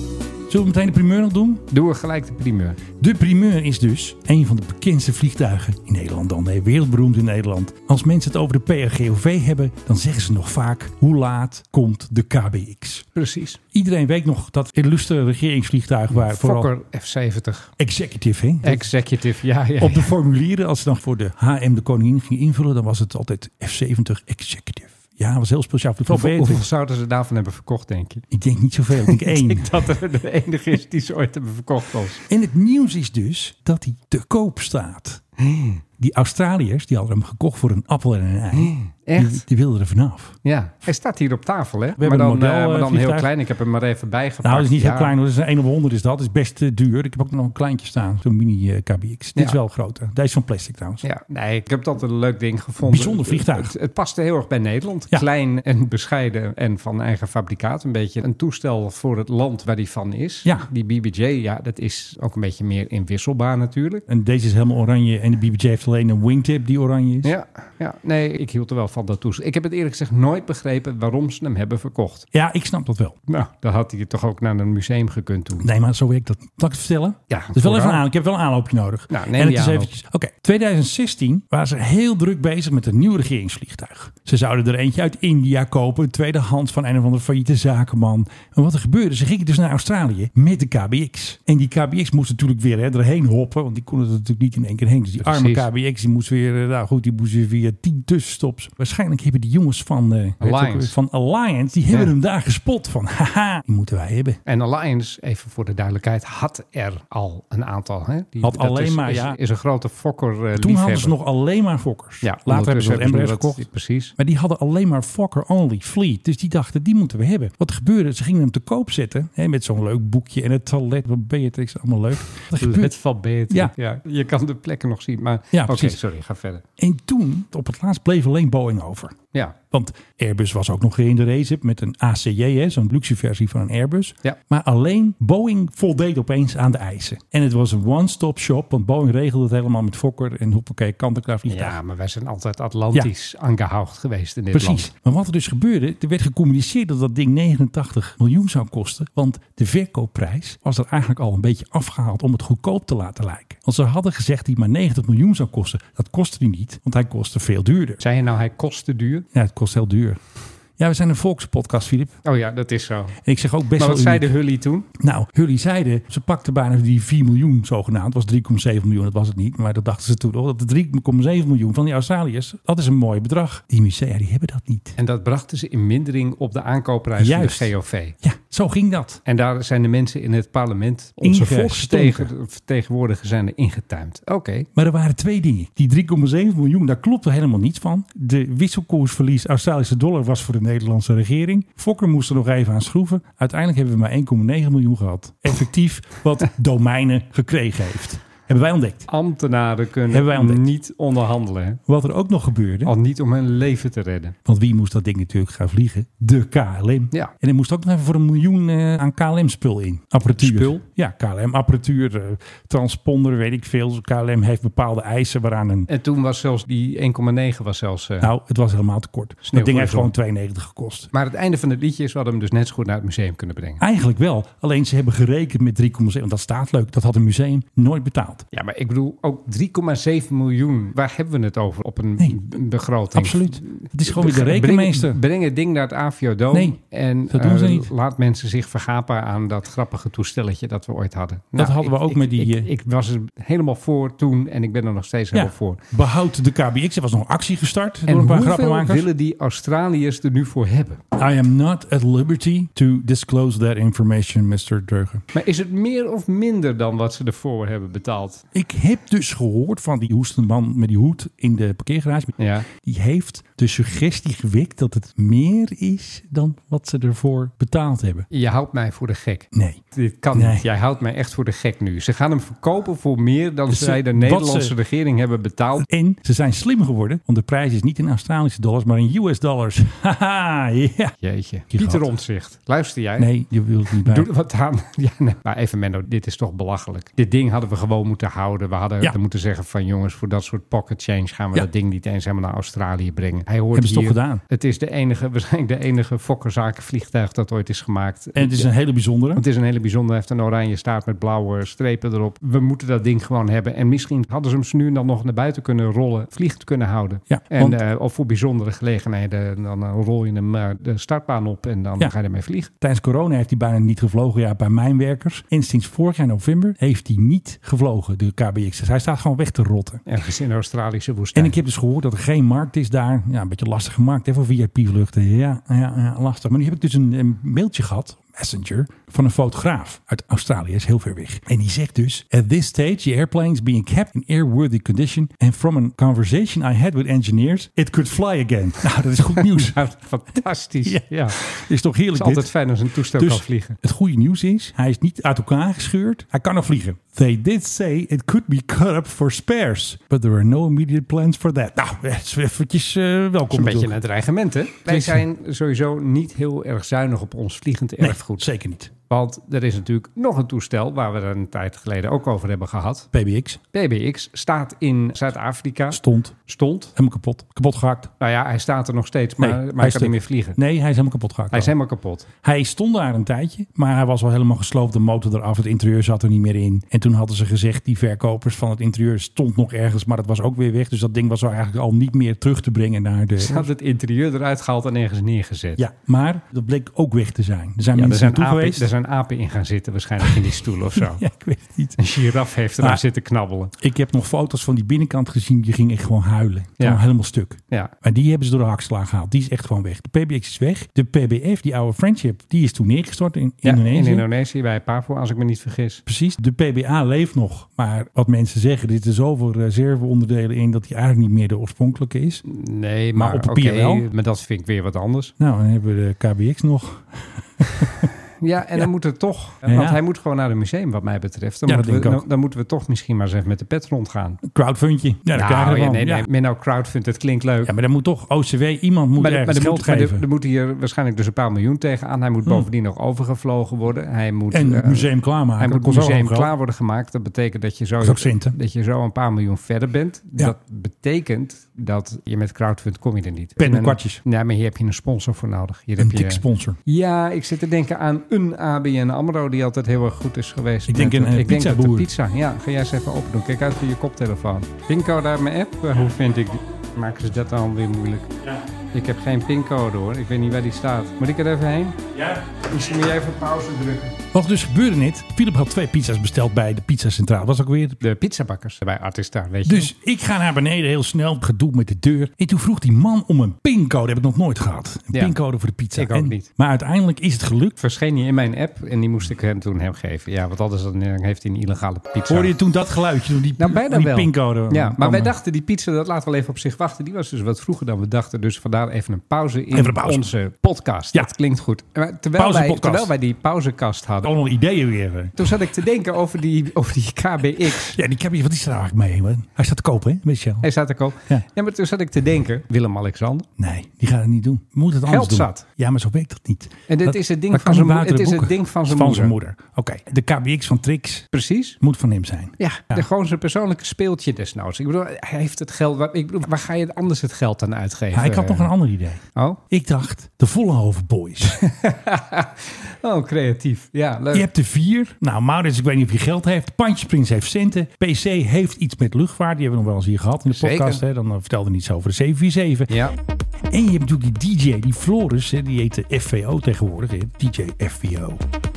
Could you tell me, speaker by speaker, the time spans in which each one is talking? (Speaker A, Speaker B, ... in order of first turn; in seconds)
Speaker A: 0.5-1.7, 3.0-13.1, 13.7-16.7, 17.8-18.9, 19.8-26.6, 28.3-29.7, 32.3-35.2, 36.0-40.4, 42.0-43.3, 44.4-51.0, 52.8-53.7, 64.1-67.3, 72.3-73.2, 75.6-104.4, 108.4-109.4, 110.6-113.6, 114.2-123.0, 125.5-126.0, 126.8-129.2, 129.7-141.8, 144.5-158.0, 159.3-160.2, 160.8-162.2, 163.2-164.3, 165.0-175.0, 177.2-177.7, 178.2-179.2, 181.2-182.3, 184.8-199.1, 200.1-200.7, 201.9-202.9, 204.5-215.9, 218.2-221.1, 223.8-228.5, 233.1-235.2, 236.5-236.8, 237.3-237.9, 241.6-242.7, 245.3-249.1, 251.2-255.2, 258.5-268.3, 269.5-269.8, 270.3-270.7, 273.7-274.7, 275.8-281.1, 281.7-282.0, 283.2-284.3, 293.7-294.4, 298.4-299.4, 307.3-307.8, 312.8-320.0, 321.4-339.8, 340.8-342.5, 343.2-354.0, 354.9-355.2, 358.0-358.9, 363.1-363.6, 365.9-366.4, 367.0-368.1, 369.4-371.7, 372.4-383.7, 385.8-388.9, 390.2-392.1, 393.8-404.3, 406.1-412.4, 413.2-414.1, 415.4-418.1, 419.6-420.0, 421.7-422.2, 424.4-426.3, 427.6-430.2, 434.5-436.5, 438.0-438.6, 443.6-444.2, 446.0-446.8, 450.9-452.1, 462.1-462.6, 464.3-468.0, 469.6-477.8, 482.3-485.3, 489.7-490.3, 492.4-493.1, 494.3-495.5, 497.9-500.7, 503.6-511.3, 511.8-513.1, 518.1-521.6, 524.3-532.9, 533.7-538.4
Speaker B: 1.7-2.8, 13.2-13.6, 16.1-17.7, 18.6-20.1, 26.1-28.3, 29.0-32.2, 35.4-35.8, 38.5-39.5, 40.5-45.1, 51.0-64.0, 67.2-72.3, 73.3-75.7, 77.3-78.0, 79.1-79.9, 95.2-95.7, 100.4-101.0, 104.5-111.1, 112.2-114.1, 122.6-126.6, 141.5-144.9, 158.0-159.3, 162.2-163.2, 163.8-164.9, 175.0-178.2, 179.3-184.7, 199.1-201.8, 202.8-204.4, 210.3-210.8, 215.9-218.3, 219.5-220.1, 221.1-223.8, 228.5-245.8, 248.1-251.0, 255.3-258.4, 262.4-262.7, 268.3-275.9, 281.2-283.3, 284.1-298.7, 299.4-312.7, 320.1-321.6, 339.4-341.4, 342.1-343.8, 353.5-358.5, 359.1-363.1, 363.7-366.9, 368.2-370.6, 371.5-372.3, 383.4-385.8, 387.9-391.2, 392.0-393.7, 403.6-406.0, 412.5-415.3, 418.4-424.4, 425.3-427.7, 429.2-458.3, 458.9-462.0, 462.7-464.2, 468.0-469.9, 475.9-476.5, 477.8-482.5, 483.6-494.3, 495.4-498.0, 500.6-503.5, 505.1-505.6, 506.9-509.3, 511.3-511.8, 512.6-518.7, 519.4-519.6, 521.6-524.5, 530.5-531.0, 532.9-533.1